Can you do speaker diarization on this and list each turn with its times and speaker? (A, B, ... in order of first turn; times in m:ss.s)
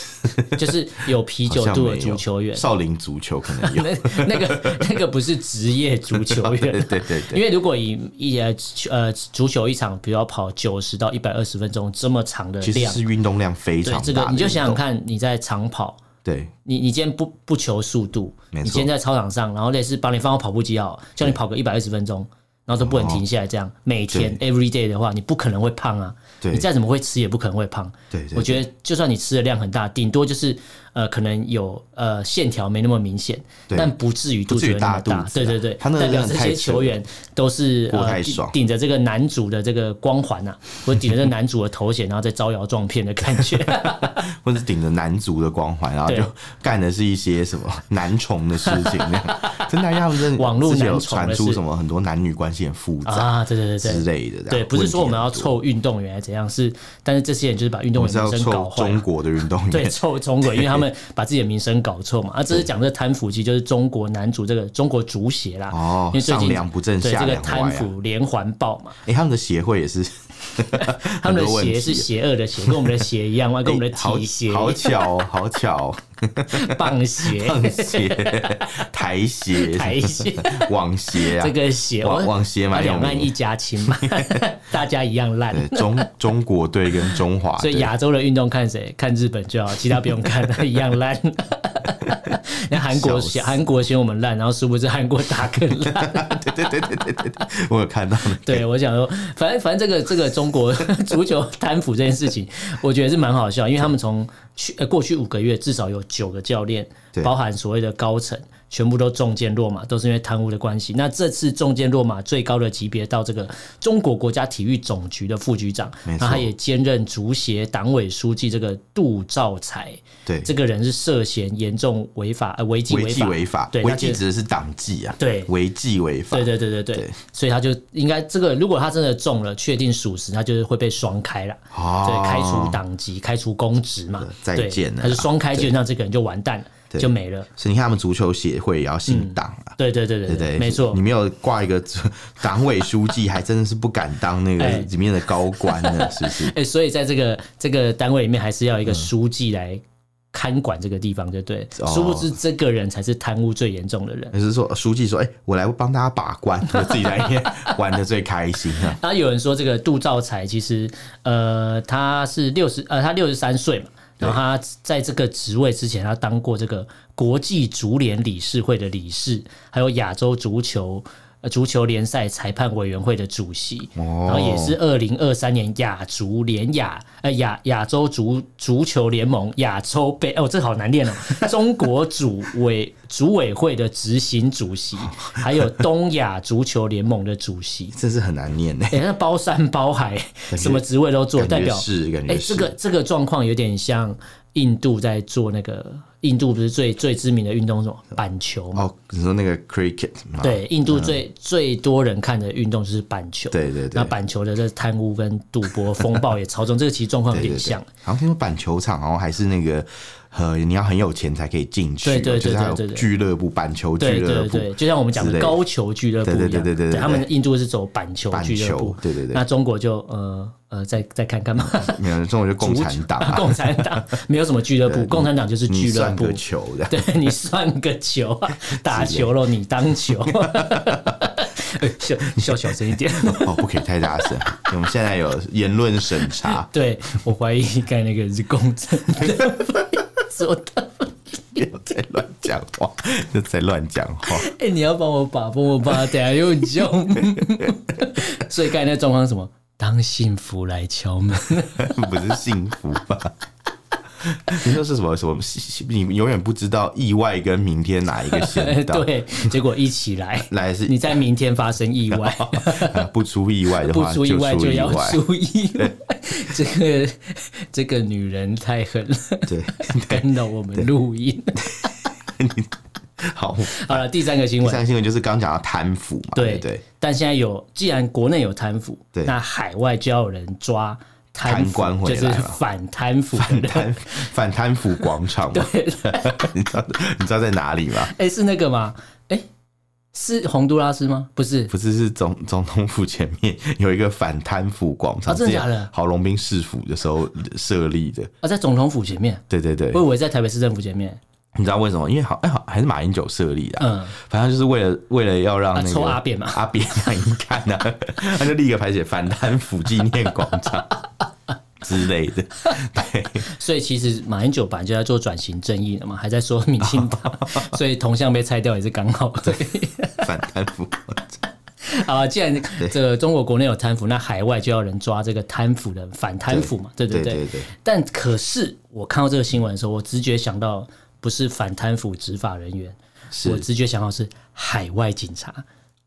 0:00.2-0:00.7 A
0:00.5-0:02.6 B
0:01.5-0:04.9 A
0:03.5-0:13.0 B
0:06.1-0:07.4 A
0:12.6-0:14.8 A
0:13.8-0:16.0 B
0:16.2-0:16.5 A
0:16.6-0:44.2 B
0:18.5-0:18.9 A
0:22.8-0:23.2 A
0:24.1-0:24.4 A
0:26.4-0:26.7 A
0:28.1-0:28.6 A
0:33.7-0:33.9 A
0:34.5-0:37.0 A
0:37.9-0:38.6 A
0:43.4-0:55.6 A
0:46.0-0:46.3 B
0:48.6-0:49.6 B
0:50.1-0:51.6 B
0:53.0-0:59.0 B
0:57.9-1:00.8 A
0:59.7-1:09.0 B
1:05.7-1:07.9 A
1:09.0-1:12.1 A
1:10.8-1:15.1 B
1:12.6-1:13.0 A
1:13.6-1:23.3 A
1:16.5-1:18.7 B
1:19.5-1:26.1 B
1:23.8-1:24.4 A
1:25.5-1:27.9 A
1:27.0-1:36.7 B
1:32.1-1:33.6 A
1:35.8-1:38.6 A
1:38.4-2:04.2 B
1:56.0-1:56.5 A
2:00.2-2:00.5 A
2:02.9-2:07.2 A
2:05.2-2:05.5 B
2:06.3-2:17.5 B
2:11.7-2:12.8 A
2:14.2-2:15.7 A
2:16.9-2:19.8 A
2:19.1-2:21.0 B
2:20.3-2:26.5 A
2:24.6-2:24.9 B
2:25.6-2:29.8 B
2:30.3-2:34.3 B
2:31.8-2:32.3 A
2:34.3-2:39.0 A
2:36.8-2:37.7 B
2:38.8-3:07.9 B
2:54.0-2:54.8 A
3:05.1-3:05.8 A
3:07.9-3:09.0 A
3:08.9-3:18.8 B
3:10.5-3:10.8 A
3:11.4-3:12.7 A
3:18.7-3:21.2 A
3:20.4-3:27.9 B
3:23.5-3:24.1 A
3:27.3-3:35.6 A
3:32.0-3:33.0 B
3:34.0-3:42.0 B
3:36.2-3:37.3 A
3:38.3-3:39.4 A
3:41.6-3:44.1 A
3:42.6-3:53.7 B
3:44.8-3:47.2 A
3:48.7-3:49.3 A
3:50.3-3:51.2 A
3:52.3-3:52.7 A
3:53.2-3:56.7 A
3:56.3-4:01.7 B
4:01.6-4:04.5 A
4:04.2-4:12.2 B
4:11.7-4:13.3 A
4:14.2-4:19.5 A
4:18.2-4:23.1 B
4:20.5-4:21.2 A
4:22.1-4:25.2 A
4:23.8-4:31.8 B
4:29.5-4:30.9 A
4:31.6-4:36.8 A
4:33.7-4:34.8 B
4:36.3-4:44.3 B
4:41.4-4:42.6 A
4:43.3-4:48.1 A
4:45.5-4:46.5 B
4:48.0-4:49.4 B
4:50.1-4:51.7 B
4:51.7-4:58.3 A
4:55.3-4:55.9 B
4:58.4-5:01.2 B
4:59.5-5:00.0 A
5:01.5-5:11.0 A
5:03.8-5:04.1 B
5:05.7-5:06.6 B
5:11.8-5:13.5 A
5:13.4-5:20.3 B
5:16.8-5:17.7 A
5:20.2-5:21.4 A
5:21.8-5:35.6 B
5:26.5-5:27.7 A
5:33.3-5:33.6 A